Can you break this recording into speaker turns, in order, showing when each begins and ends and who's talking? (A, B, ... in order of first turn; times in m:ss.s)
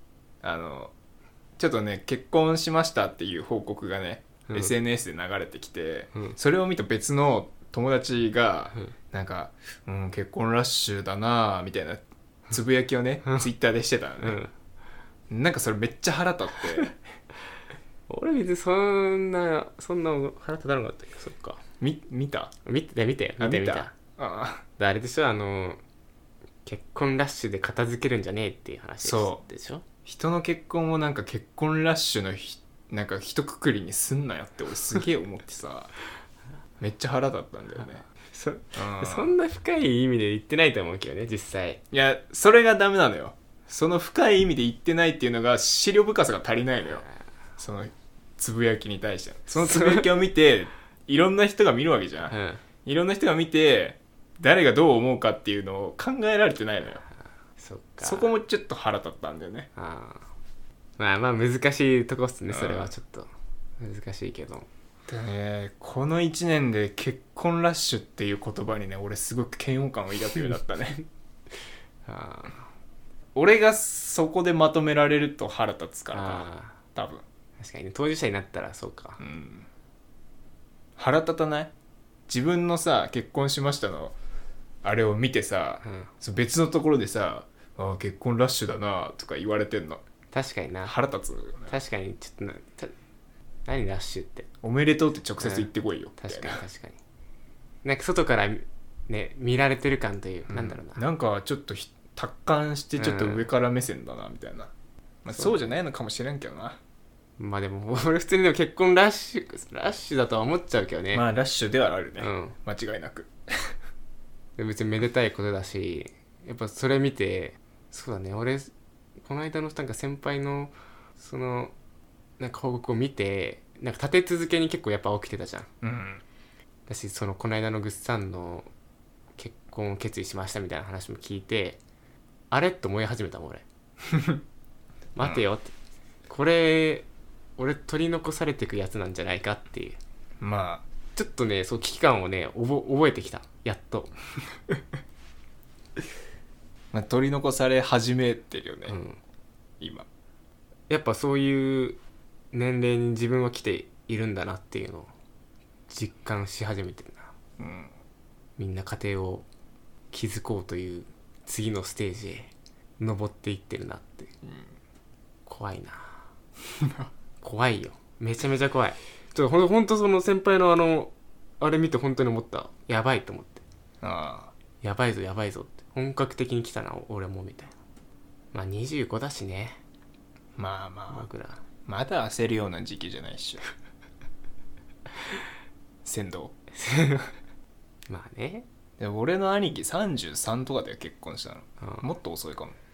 0:00.4-0:00.9 A
0:01.6-0:14.4 A
0:04.5-0:04.8 B
0:14.2-0:14.5 B
0:15.3-0:17.0 A
0:18.1-0:21.6 B
0:21.8-0:22.5 A
0:22.7-0:24.0 B
0:23.4-0:24.6 A
0:24.8-0:25.8 B
0:26.6-0:29.8 B
0:29.0-0:29.4 A
0:30.0-0:35.9 A
0:36.8-0:38.0 A
0:38.0-0:41.8 B
0:38.8-0:39.4 A
0:41.9-0:47.0 A
0:47.6-0:52.3 A
0:49.5-0:50.1 B
0:52.3-0:52.6 B
0:52.8-0:57.0 A
0:57.6-0:58.3 B
0:58.0-0:59.7 A
0:59.8-1:00.2 B
1:01.0-1:03.3 B
1:02.5-1:02.9 A
1:03.8-1:04.7 B
1:05.1-1:11.0 A
1:12.1-1:12.7 B
1:13.4-1:17.2 A
1:16.1-1:16.8 B
1:17.6-1:19.2 B
1:19.2-1:19.7 A
1:21.0-1:21.7 A
1:22.3-1:24.2 A
1:24.8-1:30.0 A
1:25.8-1:26.1 B
1:30.3-1:31.0 B
1:30.8-1:31.8 A
1:31.7-1:32.9 B
1:33.7-1:34.5 B
1:34.6-1:36.6 A
1:35.4-1:37.0 B
1:37.8-1:41.0 B
1:40.5-1:44.7 A
1:43.0-1:43.5 B
1:45.2-1:46.8 A
1:45.3-1:45.6 B
1:47.4-1:51.2 B
1:51.1-1:53.8 A
1:52.2-1:52.6 B
1:54.6-2:01.7 B
2:02.4-2:05.7 B
2:05.8-2:06.2 A
2:06.9-2:08.7 B
2:09.4-2:11.8 B
2:12.5-2:13.6 B
2:14.1-2:14.4 A
2:15.2-2:15.7 B
2:16.3-2:20.0 B
2:20.4-2:20.8 A
2:21.2-2:24.1 B
2:26.9-2:29.0 A
2:28.9-2:29.2 B
2:29.8-2:30.1 A
2:30.9-2:32.0 B
2:32.5-2:35.1 B
2:35.9-2:37.3 B
2:37.6-2:37.9 A
2:38.6-2:39.5 B
2:40.1-2:44.3 B
2:44.4-2:44.7 A
2:45.5-2:46.2 B
2:46.7-2:47.1 A
2:47.4-2:53.6 B
2:54.0-2:54.5 A
2:54.8-2:57.8 B
2:58.5-2:59.8 B
3:00.6-3:01.3 A
3:01.1-3:01.6 B
3:01.9-3:03.6 A
3:06.0-3:06.6 A
3:06.7-3:07.3 B
3:08.1-3:08.7 B
3:09.0-3:12.8 A
3:11.8-3:12.1 B